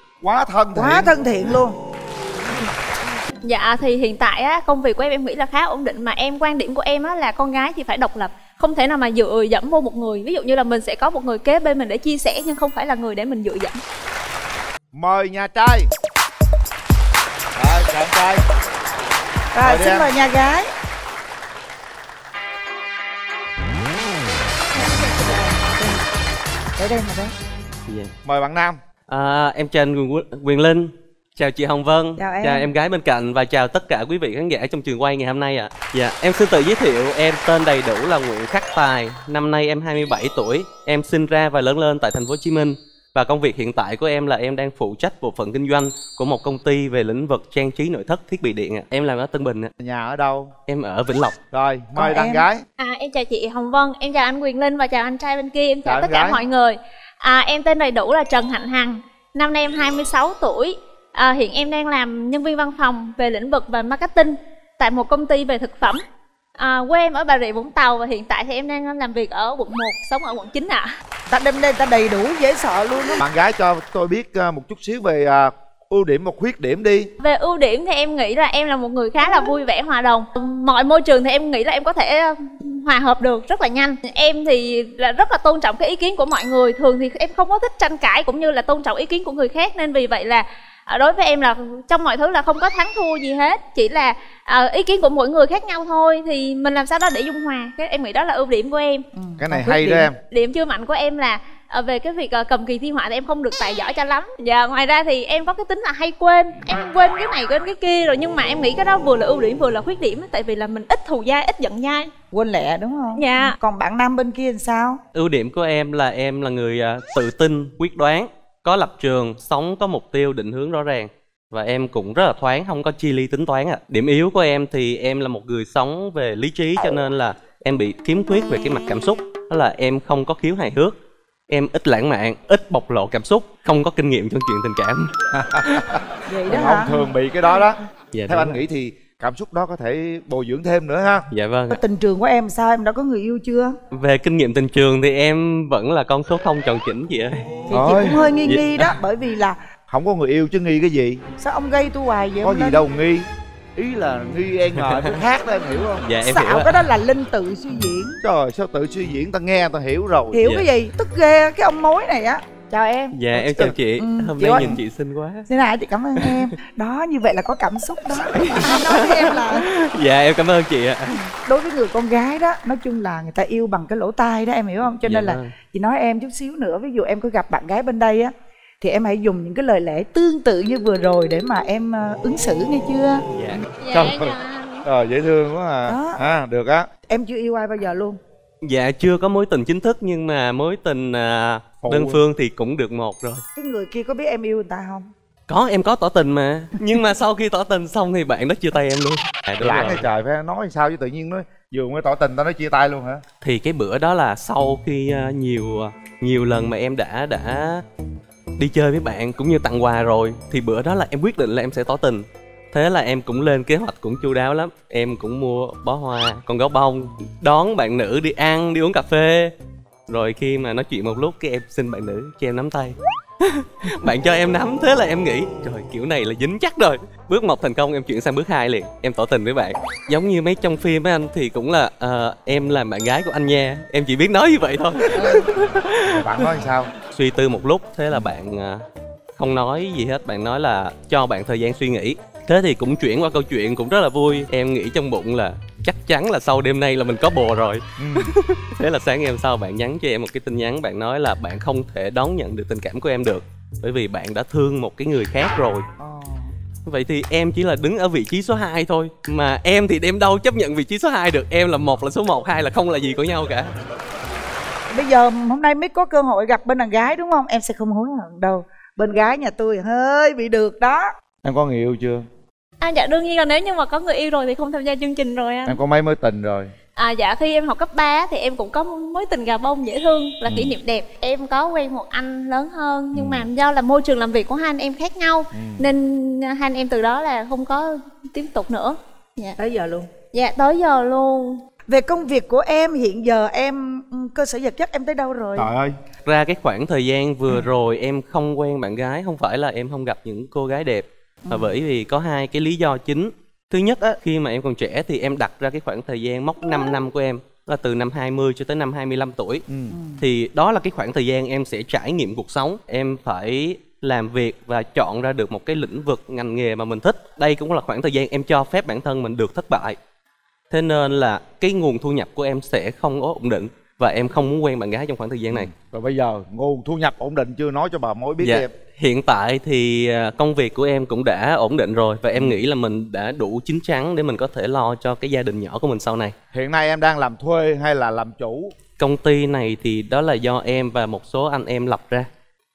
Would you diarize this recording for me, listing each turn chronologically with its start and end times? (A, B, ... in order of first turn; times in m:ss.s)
0:00.2-0:01.2 A
0:00.7-0:01.8 B
0:03.4-0:13.8 C
0:14.9-0:15.9 A
0:17.6-0:18.4 A
0:19.5-0:20.7 B
0:19.6-0:20.1 A
0:24.7-0:26.0 B
0:26.8-0:27.3 B
0:27.8-0:28.1 D
0:28.2-0:28.8 A
0:29.1-0:49.7 D
0:32.2-0:32.7 B
0:49.8-0:50.5 A
0:50.7-0:51.4 D
0:51.5-0:52.6 A
0:52.0-0:52.4 B
0:52.8-1:06.0 C
0:55.8-0:56.4 A
1:06.6-1:10.9 C
1:11.3-1:13.2 B
1:13.2-1:17.1 A
1:17.2-1:39.0 C
1:39.2-1:40.1 B
1:39.4-1:40.2 A
1:40.2-1:52.1 C
1:52.3-1:55.0 B
1:53.2-1:53.6 C
1:55.1-2:11.0 D
2:11.5-2:15.8 D
2:15.3-2:21.2 A
2:16.3-2:17.0 B
2:18.1-2:18.6 D
2:21.3-2:21.8 D
2:21.7-2:23.7 B
2:23.9-2:27.6 D
2:27.7-2:29.6 B
2:27.7-2:28.2 A
2:28.4-2:28.9 D
2:29.9-2:31.2 A
2:31.4-2:32.8 B
2:32.4-2:36.0 A
2:34.8-2:35.1 D
2:36.0-2:36.7 D
2:36.2-2:38.2 B
2:38.2-2:40.4 A
2:40.3-2:44.8 B
2:43.1-2:45.4 D
2:45.5-2:49.6 B
2:48.3-2:51.2 D
2:51.4-3:03.2 B
2:55.0-2:55.5 D
3:03.3-3:03.6 D
3:03.8-3:04.8 C
3:03.9-3:06.9 A
3:05.8-3:06.2 B
3:07.0-3:08.2 B
3:08.6-3:13.4 D
3:11.8-3:12.2 A
3:13.6-3:15.1 B
3:15.5-3:20.0 D
3:19.6-3:23.2 A
3:23.4-3:27.8 D
3:28.6-3:39.5 D
3:40.1-3:56.5 D
3:55.2-3:55.4 A
3:56.0-3:56.9 A
3:57.0-3:58.8 D
3:59.4-4:15.9 D
4:08.0-4:08.3 A
4:16.0-4:16.5 B
4:16.8-4:23.7 D
4:24.9-4:31.1 B
4:31.4-4:32.3 A
4:32.8-4:35.8 C
4:35.6-4:36.7 A
4:37.0-4:49.6 C
4:40.4-4:40.7 A
4:43.1-4:43.5 A
4:45.5-4:45.9 A
4:49.6-4:50.1 B
4:50.3-4:51.6 C
4:51.9-4:55.7 B
4:55.6-4:55.9 A
4:56.2-5:09.6 D
5:09.7-5:10.0 A
5:09.9-5:10.2 B
5:10.2-5:20.0 D
5:20.7-5:25.7 D
5:25.5-5:28.7 A
5:28.4-5:36.4 D
5:36.5-5:38.7 A
5:39.0-5:42.3 D